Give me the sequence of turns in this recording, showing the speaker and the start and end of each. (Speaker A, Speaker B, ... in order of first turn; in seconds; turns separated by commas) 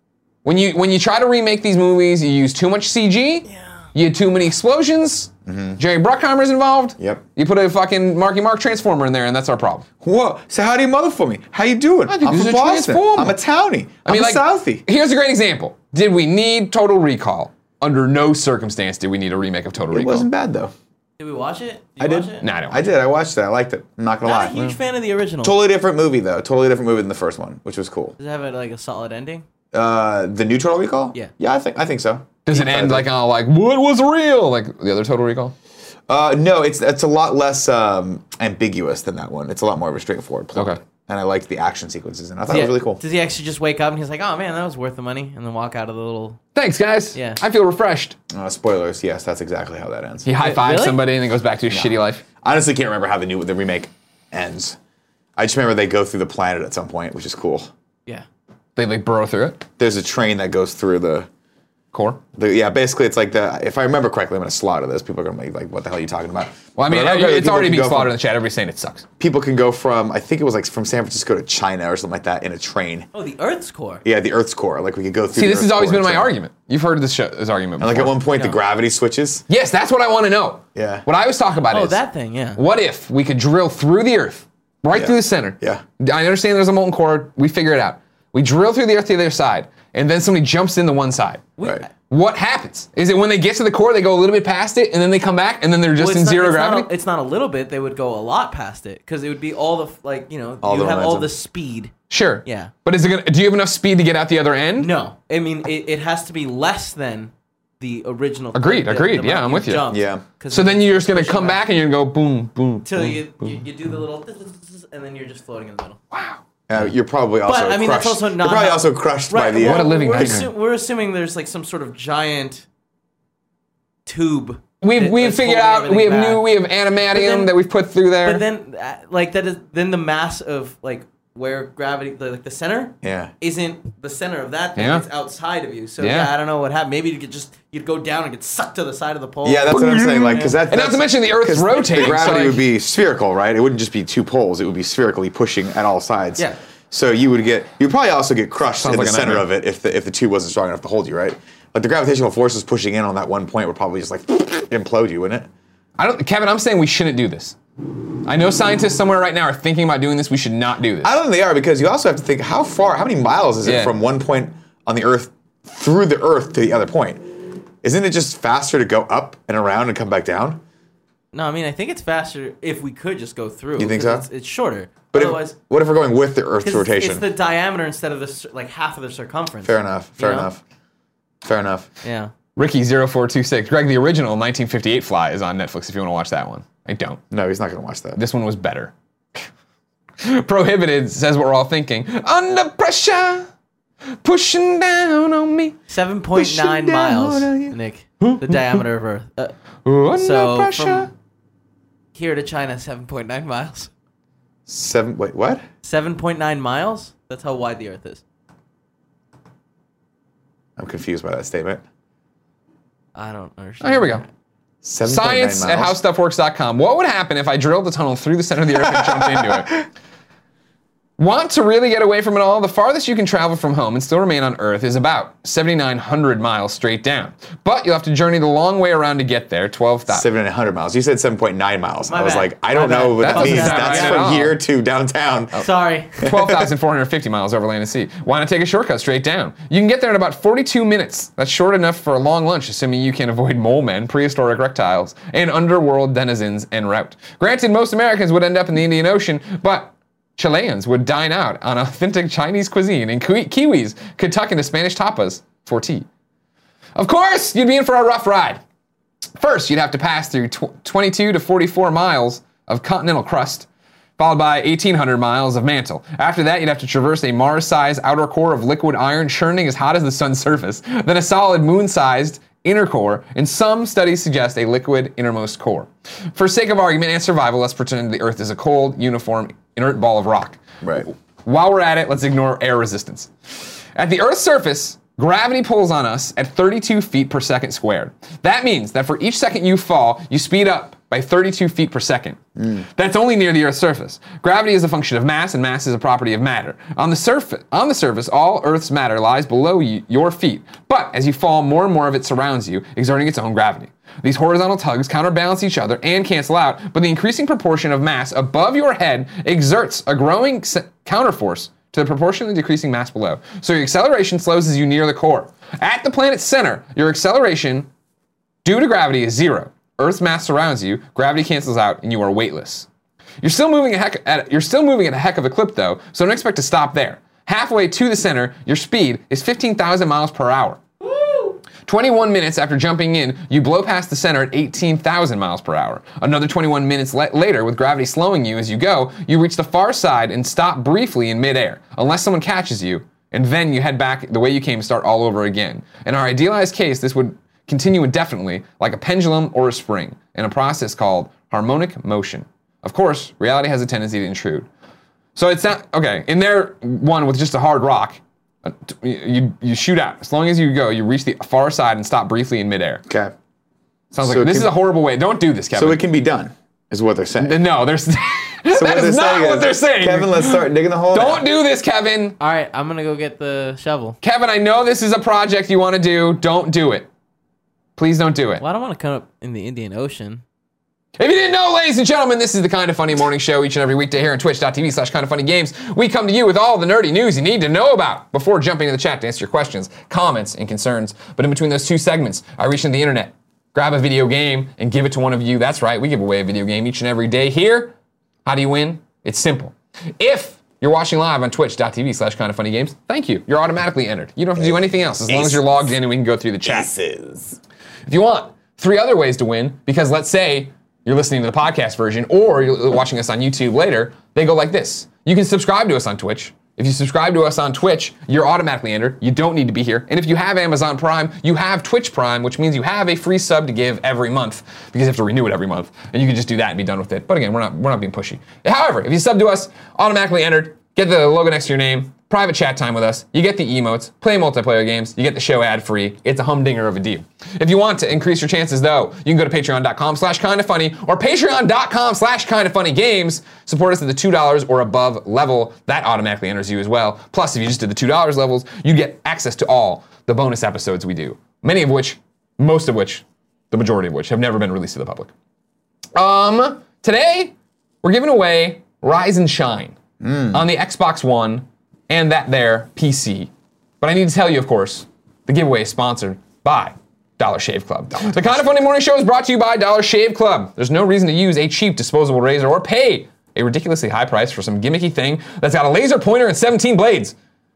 Speaker A: 0.4-9.9, Speaker B: 3.5-3.9, Speaker C: 5.5-5.8, Speaker C: 10.0-14.8, Speaker A: 12.1-13.4, Speaker A: 14.1-20.3, Speaker C: 19.9-20.7, Speaker B: 21.2-22.5, Speaker C: 22.0-24.7, Speaker A: 22.4-22.8, Speaker B: 24.2-25.6, Speaker C: 25.4-28.2, Speaker B: 28.2-29.4, Speaker C: 29.7-33.1, Speaker A: 32.5-35.5, Speaker C: 36.1-43.0, Speaker A: 40.5-40.8, Speaker B: 42.5-46.4, Speaker A: 46.5-48.2, Speaker B: 47.1-47.4, Speaker C: 48.3-50.3, Speaker A: 50.2-52.2, Speaker B: 50.4-51.0, Speaker C: 51.7-54.8, Speaker C: 55.4-57.7, Speaker A: 58.8-59.6, Speaker C: 59.8-61.3, Speaker A: 61.9-62.2, Speaker C: 62.4-68.2, Speaker A: 66.8-69.1, Speaker C: 69.2-73.1, Speaker B: 73.1-74.0, Speaker C: 74.0-76.3, Speaker A: 75.3-78.2, Speaker C: 77.8-79.5, Speaker A: 79.5-82.0, Speaker C: 80.8-81.0, Speaker B: 81.7-82.6, Speaker A: 82.6-91.5, Speaker C: 84.9-85.8, Speaker B: 91.6-91.9, Speaker A: 92.1-96.9, Speaker B: 96.0-101.9, Speaker C: 100.6-101.3, Speaker A: 102.1-104.9, Speaker B: 102.5-102.7, Speaker B: 104.8-111.6, Speaker A: 108.5-109.9, Speaker C: 109.9-110.2, Speaker A: 110.5-113.2, Speaker B: 112.8-116.0, Speaker A: 116.1-116.4, Speaker C: 116.7-120.5, Speaker B: 117.4-122.7, Speaker A: 119.6-120.5, Speaker B: 124.1-126.5, Speaker A: 124.8-128.4, Speaker B: 127.1-127.5, Speaker B: 128.2-140.6, Speaker C: 133.0-133.3, Speaker A: 134.8-135.1, Speaker A: 136.0-136.3, Speaker C: 139.4-155.5, Speaker A: 139.7-142.6, Speaker A: 148.8-149.5, Speaker A: 156.0-157.6, Speaker A: 158.2-161.1, Speaker C: 161.0-170.6, Speaker A: 163.6-163.9, Speaker B: 171.3-175.6, Speaker C: 173.8-174.3, Speaker C: 175.1-177.3, Speaker B: 176.6-180.5, Speaker C: 179.6-180.6, Speaker C: 181.4-181.9, Speaker B: 182.0-182.3, Speaker A: 182.6-187.2, Speaker C: 187.3-188.2, Speaker A: 188.2-189.4, Speaker A: 190.2-193.5, Speaker A: 194.2-195.8, Speaker B: 195.9-199.6, Speaker C: 196.3-197.8, Speaker A: 198.2-198.8, Speaker A: 199.8-201.1, Speaker B: 200.2-201.1, Speaker B: 202.1-203.9, Speaker C: 204.7-205.6, Speaker B: 205.8-208.2, Speaker C: 210.8-211.8, Speaker B: 213.2-214.3, Speaker A: 213.8-214.2, Speaker C: 214.8-216.0, Speaker A: 215.1-219.9, Speaker C: 218.9-219.6, Speaker A: 221.2-230.3, Speaker C: 230.1-235.6, Speaker B: 232.1-234.3, Speaker A: 233.2-234.6, Speaker B: 235.5-236.2, Speaker C: 236.2-236.7, Speaker A: 236.2-256.1, Speaker A: 257.0-258.6, Speaker A: 259.4-283.3, Speaker C: 280.8-281.1, Speaker A: 283.9-317.9, Speaker C: 292.6-292.8, Speaker A: 318.6-322.9, Speaker A: 323.4-330.8, Speaker B: 331.0-331.6, Speaker A: 331.8-354.7, Speaker A: 355.4-363.0, Speaker C: 363.1-363.3, Speaker A: 364.1-366.0, Speaker C: 364.2-364.7, Speaker C: 365.8-367.6, Speaker A: 367.4-372.4, Speaker C: 368.7-371.5, Speaker B: 372.4-374.2, Speaker A: 374.2-377.1, Speaker A: 378.0-378.6, Speaker B: 378.6-380.4, Speaker A: 381.2-397.9, Speaker A: 398.4-406.9, Speaker C: 404.6-405.7, Speaker C: 406.6-407.6, Speaker A: 408.1-455.3, Speaker A: 456.1-460.0, Speaker C: 460.2-460.7, Speaker A: 460.5-463.5, Speaker A: 464.0-477.4, Speaker C: 468.1-468.6